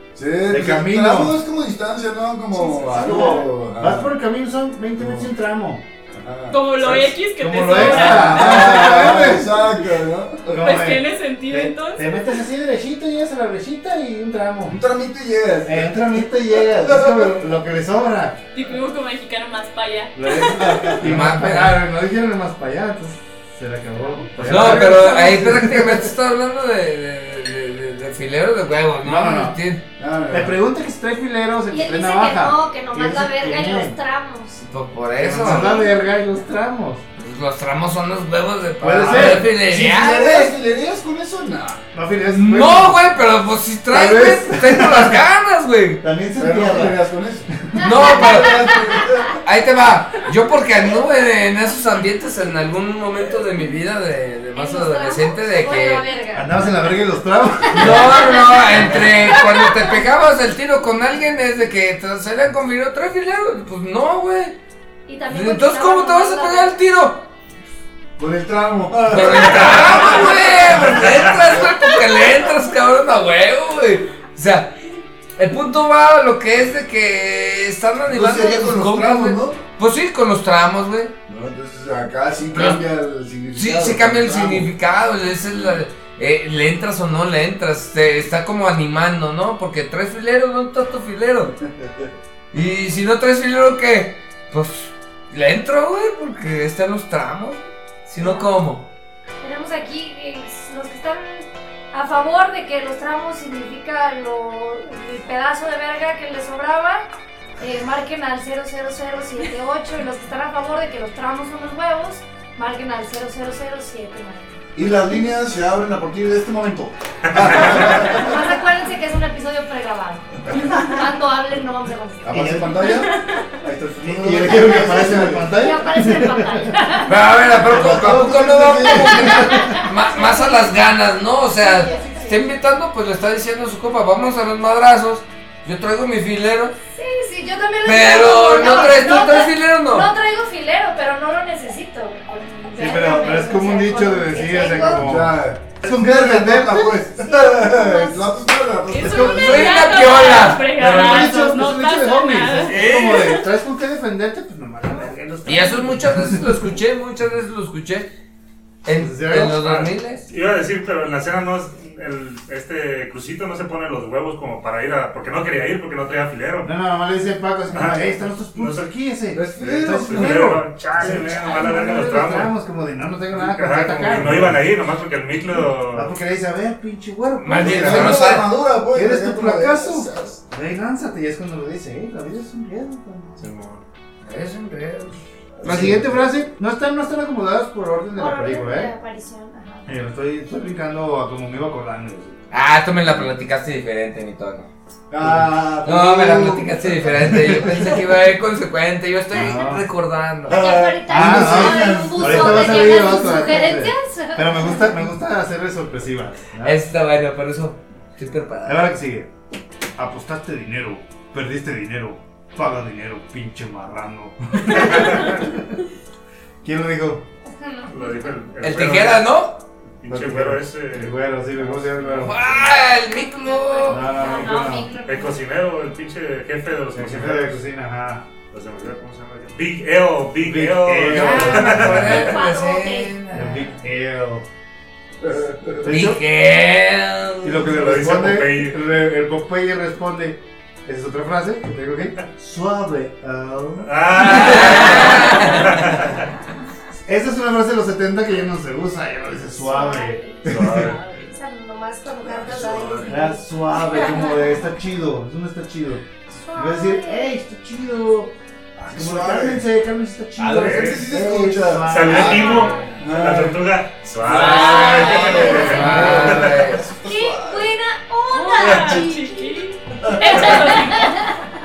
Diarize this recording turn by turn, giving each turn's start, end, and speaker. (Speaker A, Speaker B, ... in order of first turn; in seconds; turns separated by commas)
Speaker A: 0.1-4.1, Speaker B: 0.5-1.4, Speaker B: 2.6-5.8, Speaker A: 5.0-5.2, Speaker A: 6.1-7.1, Speaker C: 6.5-9.2, Speaker B: 7.2-9.7, Speaker A: 7.7-10.8, Speaker B: 10.5-14.8, Speaker C: 10.5-12.4, Speaker A: 14.7-16.1, Speaker B: 15.6-18.4, Speaker A: 16.6-17.3, Speaker C: 18.5-20.9, Speaker B: 20.1-26.1, Speaker A: 20.5-21.0, Speaker D: 21.0-21.8, Speaker E: 24.4-24.9, Speaker D: 24.4-29.8, Speaker B: 29.0-29.6, Speaker A: 30.0-30.5, Speaker B: 30.3-34.0, Speaker F: 31.7-34.6, Speaker D: 34.6-35.8, Speaker B: 35.1-37.0, Speaker F: 35.4-35.9, Speaker D: 37.2-40.5, Speaker B: 38.8-39.5, Speaker A: 39.0-41.8, Speaker B: 41.9-43.0, Speaker D: 42.3-46.0, Speaker B: 43.9-45.2, Speaker B: 46.0-47.0, Speaker A: 46.4-49.3, Speaker D: 47.8-48.7, Speaker F: 47.8-48.8, Speaker D: 49.4-56.0, Speaker F: 54.5-56.5, Speaker B: 56.3-58.2, Speaker D: 57.7-64.5, Speaker F: 57.8-60.0, Speaker F: 65.1-66.8, Speaker D: 65.3-67.2, Speaker A: 68.2-72.0, Speaker D: 69.1-74.8, Speaker D: 75.4-81.1, Speaker A: 78.1-79.6, Speaker A: 81.3-84.7, Speaker D: 82.5-82.8, Speaker D: 83.5-91.5, Speaker A: 91.8-92.1, Speaker D: 92.5-98.9, Speaker F: 98.2-98.5, Speaker F: 99.4-107.1, Speaker F: 107.6-114.6, Speaker A: 114.7-118.3, Speaker F: 118.0-122.4, Speaker A: 122.2-125.5, Speaker B: 122.3-122.9, Speaker B: 124.0-126.8, Speaker F: 125.5-127.2, Speaker D: 127.0-136.7, Speaker A: 127.6-129.6, Speaker F: 128.9-130.8, Speaker B: 129.2-129.8, Speaker F: 131.6-132.4, Speaker F: 136.9-145.1, Speaker D: 137.8-140.1, Speaker B: 142.7-147.1, Speaker A: 144.7-149.8, Speaker F: 147.2-148.3, Speaker C: 148.9-152.9, Speaker B: 148.9-149.6, Speaker D: 149.3-150.7, Speaker B: 150.7-156.6, Speaker D: 152.7-153.4, Speaker D: 155.4-158.1, Speaker D: 158.8-160.3, Speaker B: 158.9-159.8, Speaker E: 159.6-166.7, Speaker B: 166.6-174.7, Speaker E: 167.7-168.9, Speaker A: 169.3-170.4, Speaker E: 169.9-172.5, Speaker E: 173.3-176.2, Speaker B: 175.9-183.4, Speaker D: 177.4-178.5, Speaker A: 177.6-180.4, Speaker E: 183.4-183.8, Speaker D: 184.2-186.0, Speaker A: 185.6-186.2, Speaker B: 185.6-188.9, Speaker F: 188.1-189.9, Speaker B: 189.9-192.4, Speaker D: 192.5-194.7, Speaker A: 195.1-197.1, Speaker B: 195.2-195.5, Speaker D: 195.8-200.6, Speaker B: 197.2-198.0, Speaker B: 199.3-199.8, Speaker A: 200.5-203.2, Speaker F: 200.5-205.0, Speaker B: 201.1-206.8, Speaker D: 206.6-208.9, Speaker B: 208.6-209.3, Speaker B: 210.0-215.8, Speaker B: 216.6-217.2, Speaker F: 217.4-218.1, Speaker E: 217.9-219.3, Speaker D: 218.6-219.6, Speaker E: 220.0-222.6, Speaker B: 220.1-222.7, Speaker D: 222.2-224.3, Speaker F: 222.8-225.4, Speaker B: 223.9-224.9, Speaker E: 225.0-227.6, Speaker B: 226.9-228.2, Speaker E: 228.5-232.3, Speaker B: 230.4-232.3, Speaker D: 231.1-233.7, Speaker F: 232.0-233.2, Speaker B: 233.3-234.5, Speaker A: 235.2-235.8, Speaker B: 235.8-236.2, Speaker D: 235.8-237.8, Speaker B: 237.4-245.2, Speaker E: 237.7-238.8, Speaker E: 243.8-246.2, Speaker D: 244.2-245.6, Speaker B: 247.1-250.9, Speaker F: 249.6-254.5, Speaker E: 250.4-251.2, Speaker A: 252.2-253.1, Speaker B: 253.0-258.3, Speaker F: 256.4-257.3, Speaker A: 258.8-259.6, Speaker B: 258.9-262.9, Speaker A: 260.4-263.6, Speaker E: 260.5-261.0, Speaker E: 261.9-266.4, Speaker F: 262.2-263.0, Speaker B: 264.2-264.7, Speaker A: 264.3-267.7, Speaker D: 264.3-266.8, Speaker C: 264.4-265.6, Speaker B: 265.4-266.4, Speaker F: 267.0-269.7, Speaker C: 268.3-271.2, Speaker F: 270.2-271.2